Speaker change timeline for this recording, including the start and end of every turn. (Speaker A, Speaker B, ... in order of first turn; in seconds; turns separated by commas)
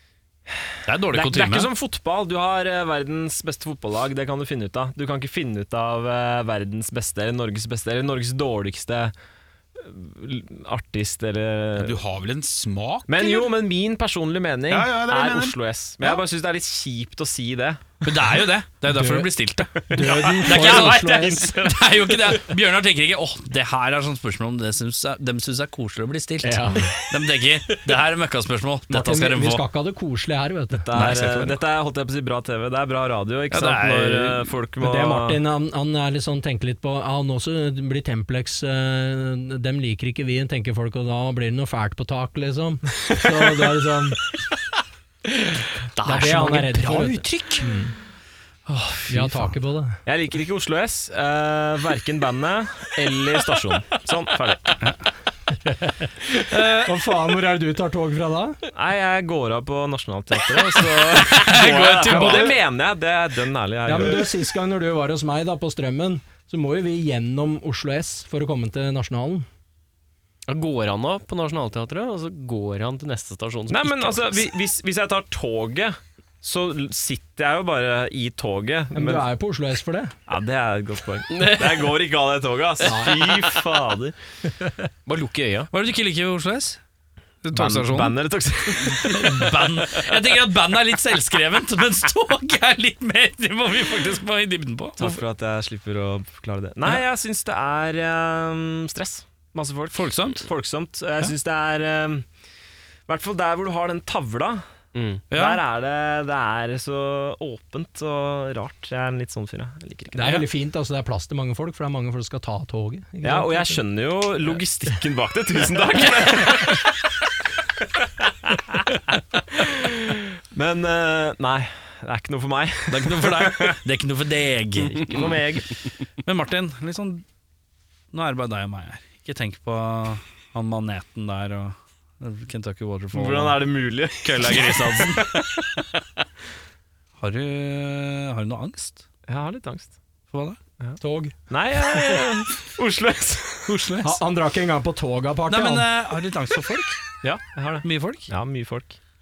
Speaker A: 0.5-9.1, Speaker B: 0.9-1.7, Speaker A: 9.8-12.0, Speaker C: 11.8-13.5, Speaker A: 13.1-18.0, Speaker C: 14.7-15.6, Speaker B: 18.0-29.6, Speaker D: 18.9-19.3, Speaker D: 19.9-21.5, Speaker A: 20.0-21.0, Speaker D: 26.4-27.0, Speaker D: 28.9-30.9, Speaker A: 30.7-35.4, Speaker B: 30.9-31.6, Speaker B: 33.5-34.5, Speaker D: 34.8-44.2, Speaker E: 46.0-47.6, Speaker D: 46.0-48.0, Speaker D: 49.1-50.0, Speaker A: 50.0-54.8, Speaker D: 55.7-56.1, Speaker B: 56.5-56.9, Speaker D: 56.8-58.6, Speaker A: 58.7-64.3, Speaker B: 61.3-62.6, Speaker D: 62.0-62.6, Speaker D: 63.9-69.5, Speaker E: 70.5-74.4, Speaker A: 73.7-79.3, Speaker D: 78.9-80.1, Speaker A: 80.3-84.7, Speaker E: 81.3-81.9, Speaker D: 82.8-83.4, Speaker E: 85.1-85.7, Speaker B: 85.7-86.8, Speaker B: 87.4-95.2, Speaker A: 87.5-89.5, Speaker A: 95.0-102.3, Speaker B: 99.9-100.5, Speaker A: 103.1-104.6, Speaker E: 105.0-105.2, Speaker B: 105.3-105.6, Speaker A: 105.3-110.4, Speaker D: 110.1-113.8, Speaker A: 113.2-116.9, Speaker A: 118.5-118.8, Speaker A: 119.4-123.8, Speaker B: 122.9-125.3, Speaker A: 125.0-125.7, Speaker B: 126.2-127.2, Speaker B: 128.1-135.4, Speaker A: 133.1-135.6, Speaker B: 137.2-139.1, Speaker A: 139.3-139.9, Speaker B: 140.3-140.6, Speaker D: 141.0-141.4, Speaker A: 141.5-143.8, Speaker B: 143.7-144.2, Speaker D: 144.0-145.9, Speaker B: 145.5-147.0, Speaker A: 147.2-149.0, Speaker B: 147.8-148.3